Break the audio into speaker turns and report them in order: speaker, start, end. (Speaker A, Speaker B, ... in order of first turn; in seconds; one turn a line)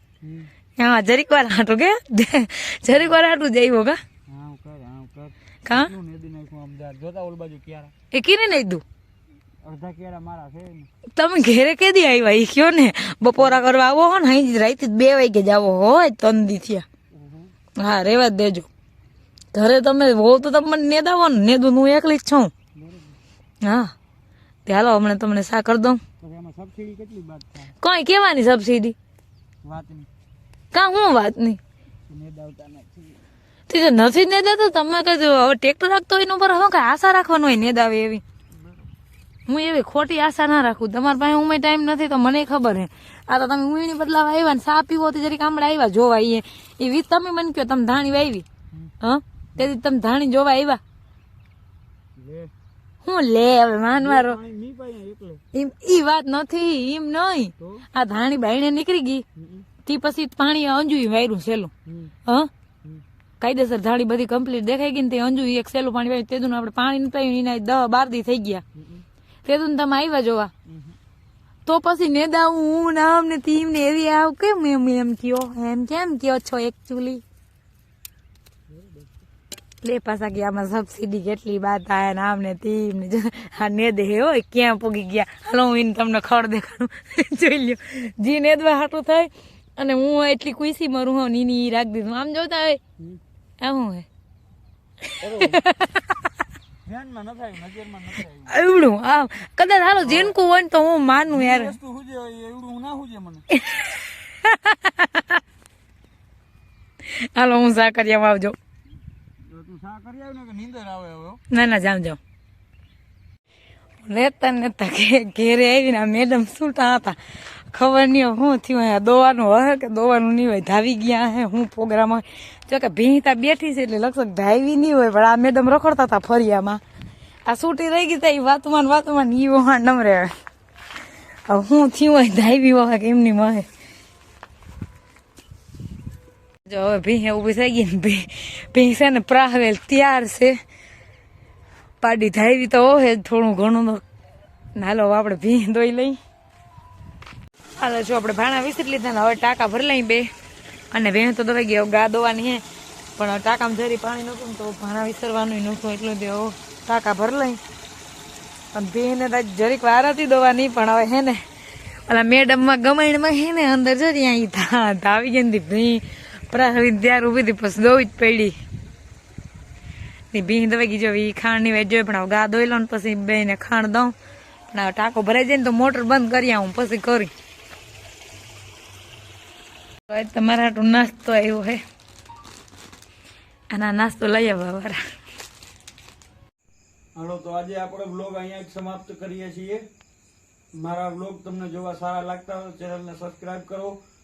Speaker A: 0.2-0.5
Speaker B: 0.8-4.0
Speaker A: 4.3-7.9
Speaker B: 5.6-5.9
Speaker B: 8.1-8.8
Speaker A: 9.6-10.9
Speaker B: 11.1-16.8
Speaker A: 13.4-13.6
Speaker A: 17.1-17.5
Speaker B: 17.8-18.7
Speaker B: 19.5-22.5
Speaker A: 22.7-23.2
Speaker B: 23.6-23.9
Speaker B: 24.6-26.0
Speaker A: 26.2-27.7
Speaker B: 27.8-28.9
Speaker A: 29.6-30.1
Speaker B: 30.7-31.6
Speaker A: 32.1-33.2
Speaker B: 33.7-38.2
Speaker A: 38.5-38.9
Speaker B: 39.5-48.5
Speaker B: 49.0-50.8
Speaker A: 52.1-52.5
Speaker B: 53.0-54.4
Speaker A: 53.9-55.4
Speaker B: 55.5-59.2
Speaker A: 57.6-57.8
Speaker A: 59.4-59.7
Speaker B: 59.8-61.7
Speaker A: 61.9-62.1
Speaker B: 63.4-68.6
Speaker A: 68.8-69.0
Speaker B: 69.4-70.5
Speaker A: 70.7-71.0
Speaker B: 71.7-77.2
Speaker A: 78.7-79.1
Speaker B: 79.8-92.8
Speaker B: 93.6-94.1
Speaker B: 95.1-96.2
Speaker A: 95.2-95.6
Speaker A: 96.8-98.6
Speaker B: 98.5-101.7
Speaker A: 100.0-100.4
Speaker A: 101.3-103.5
Speaker B: 103.5-105.4
Speaker B: 107.0-108.6
Speaker A: 109.4-111.4
Speaker B: 111.5-112.2
Speaker B: 114.0-126.8
Speaker B: 127.5-130.3
Speaker B: 131.5-133.7
Speaker B: 136.7-140.6
Speaker B: 142.0-144.0
Speaker B: 144.7-146.2
Speaker B: 147.8-150.3
Speaker B: 150.9-152.6
Speaker B: 153.2-157.6
Speaker B: 158.7-168.6
Speaker B: 170.3-174.1
Speaker B: 174.7-177.3
Speaker B: 180.1-181.8
Speaker B: 183.7-185.0
Speaker A: 187.1-189.9
Speaker A: 190.7-194.0